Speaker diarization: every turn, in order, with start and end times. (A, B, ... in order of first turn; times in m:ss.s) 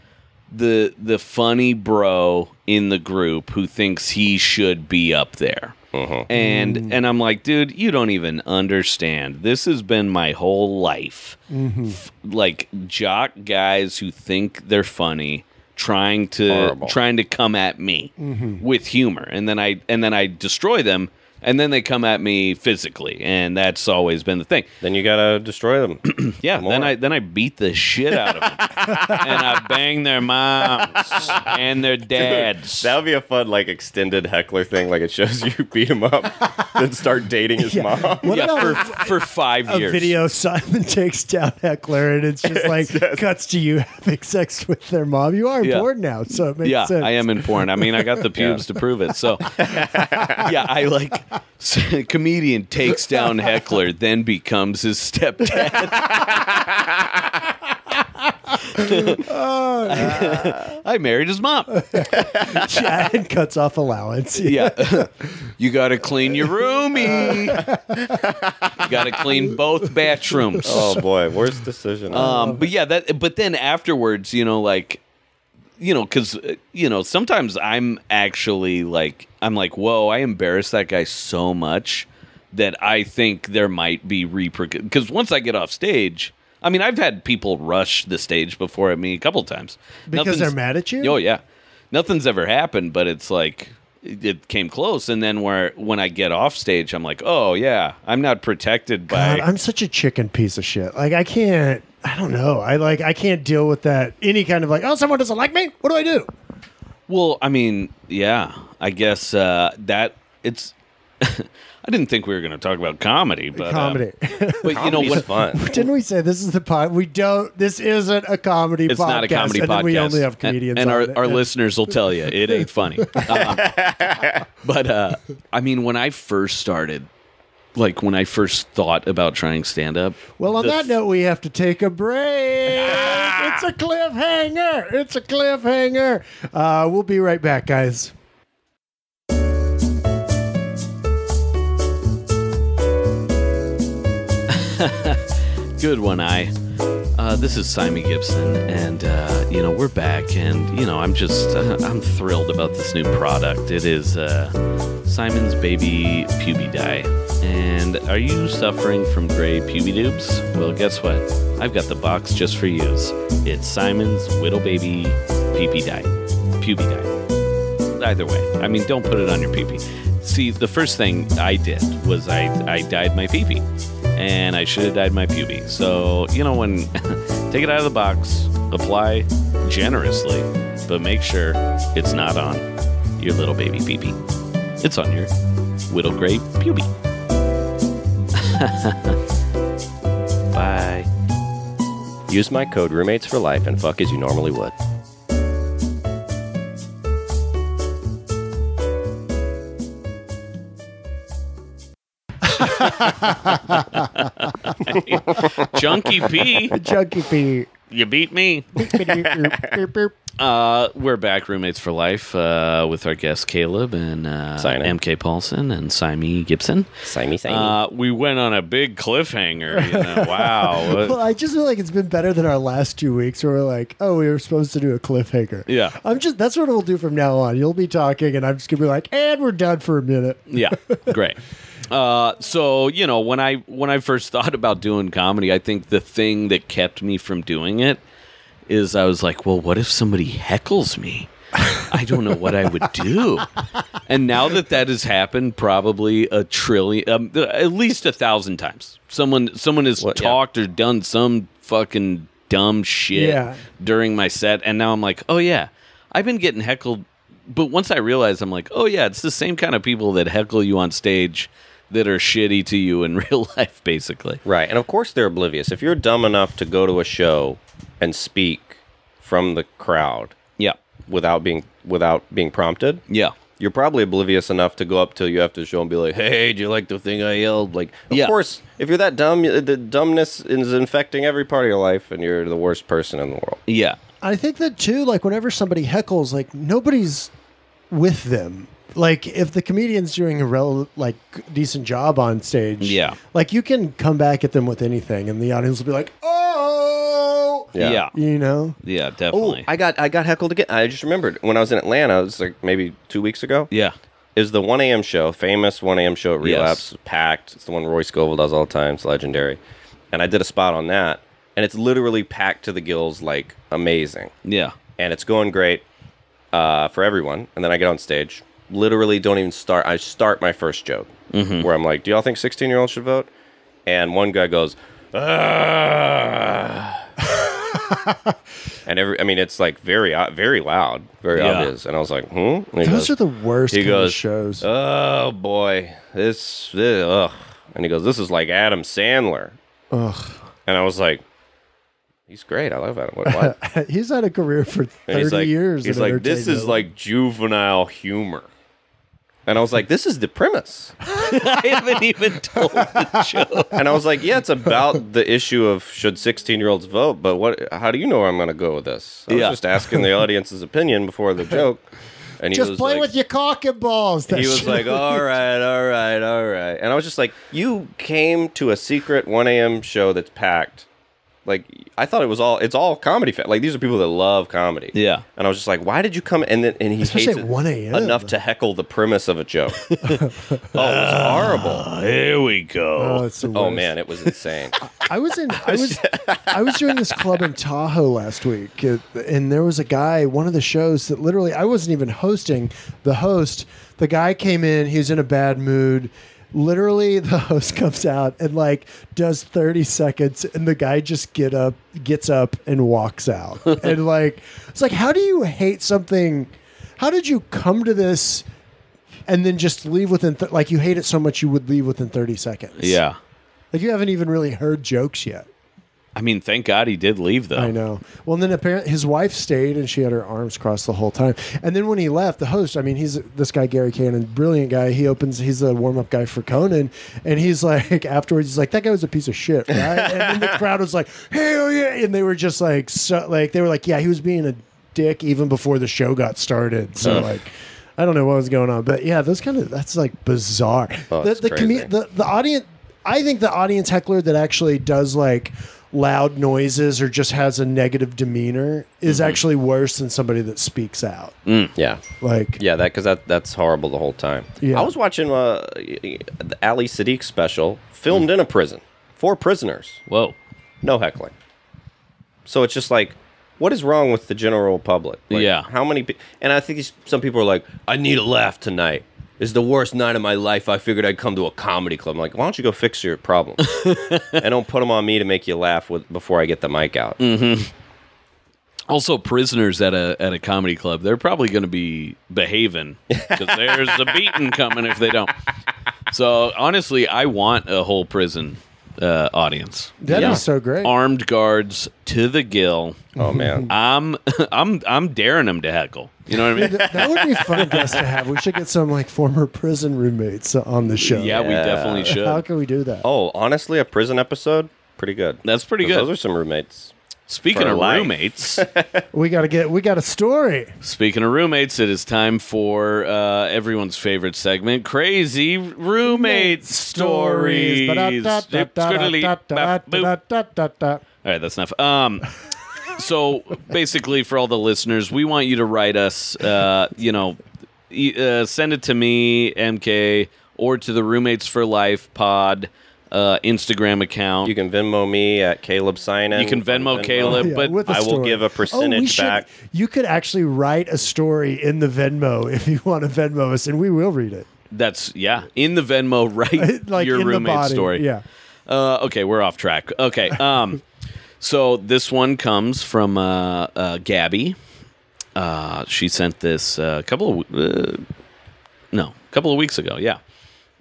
0:00.5-0:05.7 A
0:05.9-0:06.3 B
0:06.3-0:11.4 A
0:06.3-0:07.0 C
0:11.5-0:12.0 C
0:11.9-0:24.7 A
0:16.5-0:17.0 B
0:18.2-0:18.6 C
0:24.8-0:26.9 B
0:26.1-0:32.9 A
0:28.7-0:29.4 C
0:32.2-0:38.8 B
0:37.6-0:39.1 C
0:38.3-0:40.1 A
0:39.7-0:48.2 C
0:42.4-0:43.2 B
0:45.6-0:45.9 A
0:46.6-0:49.6 A
0:48.4-0:48.6 B
0:49.5-0:50.5 B
0:50.1-0:50.5 C
0:50.3-0:56.4 A
0:55.7-0:56.3 C
0:56.3-0:57.1 B
0:58.5-1:00.6 C
0:58.7-0:59.2 A
0:59.8-1:02.0 A
1:01.7-1:05.1 C
1:02.2-1:02.6 B
1:04.4-1:07.6 A
1:07.0-1:08.4 C
1:08.2-1:08.5 B
1:08.8-1:11.0 A
1:09.2-1:09.6 C
1:10.3-1:11.0 C
1:10.6-1:12.4 B
1:12.1-1:15.0 A
1:12.1-1:12.6 C
1:15.8-1:31.4 A
1:30.1-1:31.2 C
1:31.9-1:39.4 A
1:39.1-1:46.3 C
1:47.1-1:54.0 A
1:53.5-2:01.4 C
1:54.6-1:55.3 A
1:54.7-1:55.8 B
1:58.9-2:03.8 A
2:03.1-2:03.5 C
2:03.3-2:04.4 B
2:04.6-2:07.1 A
2:07.7-2:10.9 A
2:10.4-2:18.1 C
2:24.5-2:26.5 A
2:27.2-2:34.5 A
2:35.0-2:47.1 A
2:48.0-2:53.6 A
2:54.2-3:02.6 A
3:03.2-3:04.2 A
3:04.8-3:05.3 A
3:05.9-3:06.9 A
3:08.4-3:09.2 A
3:10.5-3:11.1 A
3:12.3-3:14.7 B
3:22.5-3:25.0 C
3:24.0-3:26.7 A
3:26.7-3:27.7 C
3:27.9-3:29.3 A
3:28.8-3:30.1 C
3:30.4-3:36.9 A
3:34.6-3:35.0 B
3:37.0-3:37.8 B
3:37.4-3:41.2 A
3:39.7-3:51.1 C
3:45.7-3:46.0 A
3:50.5-3:58.0 A
3:58.7-4:03.5 A
4:04.1-4:24.4 A
4:10.0-4:10.4 B
4:13.1-4:13.6 C
4:24.4-4:30.4 B
4:31.1-4:33.0 B
4:33.6-4:43.6 B
4:43.7-4:44.0 A
4:44.2-4:47.3 C
4:47.9-4:58.8 C
4:52.8-4:53.2 A
4:57.7-4:58.0 B
4:57.8-4:58.1 A
4:58.8-4:59.7 A
4:59.3-5:03.7 B
5:04.3-5:09.6 B
5:06.4-5:06.8 A
5:10.1-5:14.3 B
5:14.4-5:14.8 A
5:15.0-5:15.8 B
5:16.5-5:23.3 B
5:21.3-5:21.7 A
5:23.8-5:27.0 B
5:27.2-5:28.3 C
5:28.8-5:33.1 B
5:31.4-5:31.7 A
5:32.8-5:34.6 C
5:33.7-5:39.5 B
5:39.9-5:40.4 C
5:40.7-5:41.2 B
5:42.3-5:43.5 B
5:43.2-5:46.8 C
5:45.1-5:48.5 B
5:49.4-5:50.9 B
5:51.2-5:53.8 A
5:52.5-5:53.8 C
5:53.7-6:01.8 B
5:59.3-6:00.0 A
6:02.4-6:03.1 B
6:02.5-6:05.2 C
6:04.3-6:10.9 B
6:11.4-6:19.9 B
6:14.9-6:15.2 A
6:17.0-6:18.3 C
6:19.8-6:23.2 A
6:20.0-6:20.7 C
6:20.7-6:21.9 B
6:23.0-6:23.9 C
6:23.5-6:24.8 B
6:24.8-6:48.4 C
6:25.7-6:26.7 B
6:49.3-6:53.0 C
6:52.8-6:53.2 A
6:53.7-6:55.5 C
6:56.1-6:57.7 A
6:57.6-7:31.3 C
7:09.9-7:10.5 B
7:21.1-7:21.9 B
7:29.1-7:29.4 A
7:31.5-7:31.7 A
7:31.8-7:32.0 B
7:32.2-7:32.6 C
7:32.6-7:40.0 B
7:34.6-7:34.9 C
7:40.1-7:40.4 A
7:40.8-7:41.3 B
7:42.4-7:53.7 B
7:45.3-7:45.7 A
7:53.6-7:54.4 A
7:54.3-7:57.2 B
7:57.2-7:57.7 A
7:58.9-8:05.3 A
8:03.1-8:04.4 B
8:06.1-8:13.1 A
8:10.0-8:10.9 C
8:10.1-8:10.4 B
8:13.2-8:13.7 B
8:13.2-8:13.7 C
8:13.7-8:18.0 A
8:16.5-8:23.0 C
8:21.0-8:22.4 A
8:21.3-8:22.0 B
8:23.0-8:26.9 B
8:25.4-8:26.1 A
8:27.3-8:28.6 A
8:27.5-8:29.0 B
8:29.1-8:30.7 C
8:30.8-8:40.1 A
8:36.0-8:41.0 C
8:41.2-8:42.3 A
8:42.9-8:54.5 A
8:54.4-8:59.4 B
8:56.3-8:57.8 A
8:57.2-9:04.5 C
9:04.7-9:08.0 A
9:06.6-9:08.2 C
9:08.7-9:10.8 A
9:11.4-9:14.6 A
9:15.4-9:18.0 A
9:18.9-9:20.2 A